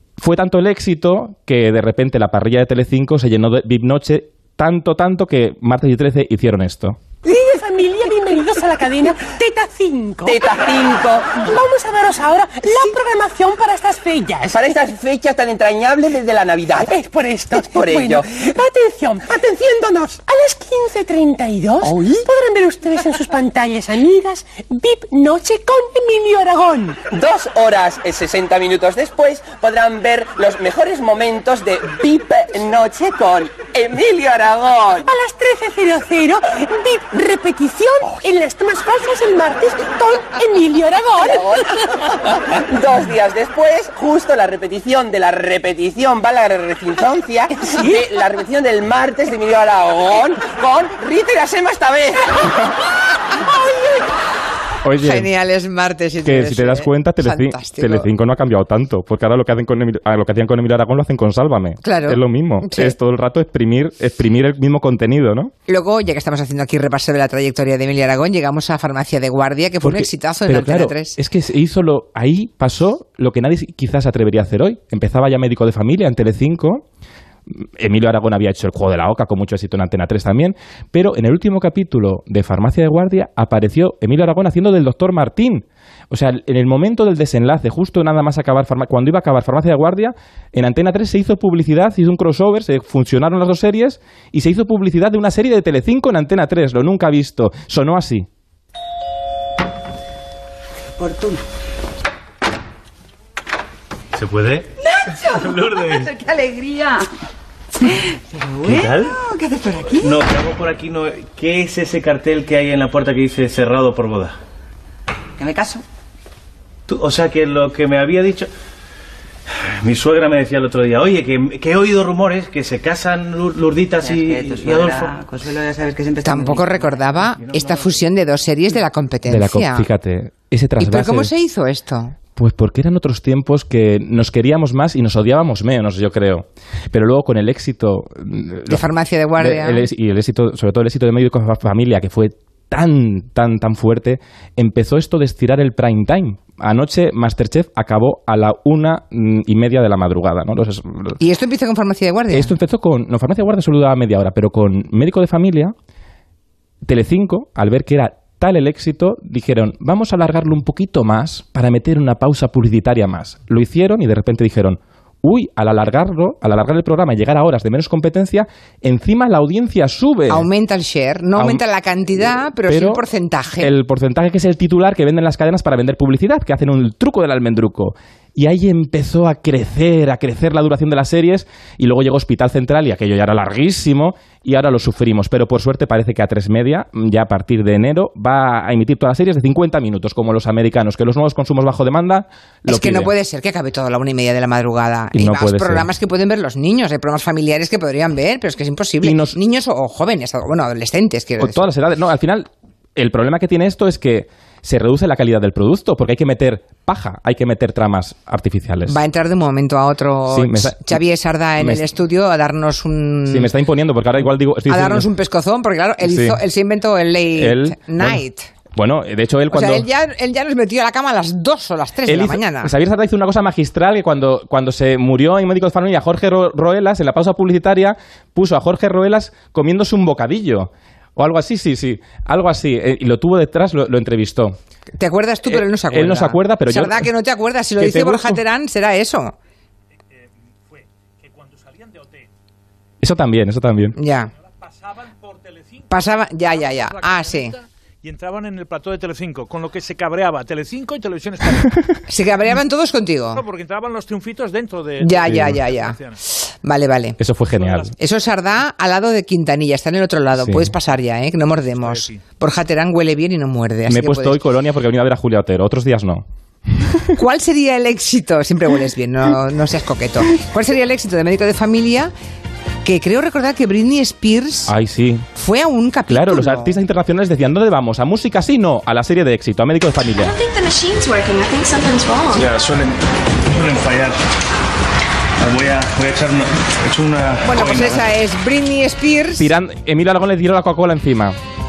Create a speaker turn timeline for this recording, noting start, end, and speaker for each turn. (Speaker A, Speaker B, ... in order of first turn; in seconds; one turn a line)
Speaker A: 0.2-7.0
Speaker B: 7.2-10.4
Speaker C: 10.2-11.4
Speaker B: 11.3-14.5
Speaker C: 14.5-16.9
Speaker B: 16.8-27.0
Speaker C: 17.5-18.2
Speaker C: 21.8-22.2
Speaker C: 27.1-35.0
Speaker B: 35.0-41.7
Speaker C: 41.3-52.7
Speaker B: 47.6-48.0
Speaker C: 53.5-53.9
Speaker A: 54.8-55.3
Speaker D: 55.0-58.1
Speaker A: 56.2-65.5
Speaker D: 61.8-62.9
Speaker D: 65.7-71.2
Speaker A: 69.8-76.8
Speaker A: 77.5-98.3
Speaker E: 101.0-101.4
Speaker F: 104.1-104.7
Speaker E: 105.0-107.0
Speaker F: 105.3-106.1
Speaker E: 108.4-110.2
Speaker F: 108.6-109.2
Speaker F: 110.0-114.4
Speaker E: 115.4-115.8
Speaker F: 116.9-118.5
Speaker F: 119.6-125.2
Speaker E: 124.0-127.3
Speaker D: 126.2-129.9
Speaker A: 129.3-131.3
Speaker D: 130.8-132.1
Speaker A: 132.3-151.2
Speaker D: 138.7-139.8
Speaker D: 151.2-152.5
Speaker A: 152.3-155.7
Speaker A: 156.8-170.5
Speaker D: 170.3-173.7
Speaker A: 171.3-171.6
Speaker A: 172.7-173.0
Speaker A: 173.6-193.1
Speaker D: 192.7-201.7
Speaker A: 195.1-195.9
Speaker A: 199.0-199.3
Speaker A: 201.4-209.0
Speaker D: 208.9-213.5
Speaker A: 210.3-211.0
Speaker A: 211.6-211.8
Speaker A: 213.2-215.1
Speaker D: 214.7-218.5
Speaker A: 216.0-216.4
Speaker A: 217.3-219.9
Speaker D: 219.5-222.7
Speaker A: 222.1-234.6
Speaker D: 235.0-239.3
Speaker A: 235.4-237.1
Speaker A: 237.8-238.4
Speaker G: 241.3-242.2
Speaker A: 243.0-244.0
Speaker D: 243.9-244.3
Speaker G: 245.2-245.5
Speaker D: 245.9-247.6
Speaker G: 247.1-247.4
Speaker G: 248.0-251.7
Speaker A: 251.6-251.9
Speaker D: 252.1-253.5
Speaker G: 253.4-255.7
Speaker D: 255.0-257.2
Speaker A: 255.2-255.6
Speaker A: 257.2-258.0
Speaker D: 257.9-264.4
Speaker A: 260.4-260.7
Speaker A: 263.9-267.1
Speaker D: 267.1-272.1
Speaker D: 272.8-274.7
Speaker A: 274.7-275.2
Speaker D: 275.3-276.8
Speaker A: 276.1-280.3
Speaker H: 280.2-282.4
Speaker F: 282.3-284.2
Speaker F: 285.4-288.1
Speaker D: 287.4-289.5
Speaker A: 289.4-291.4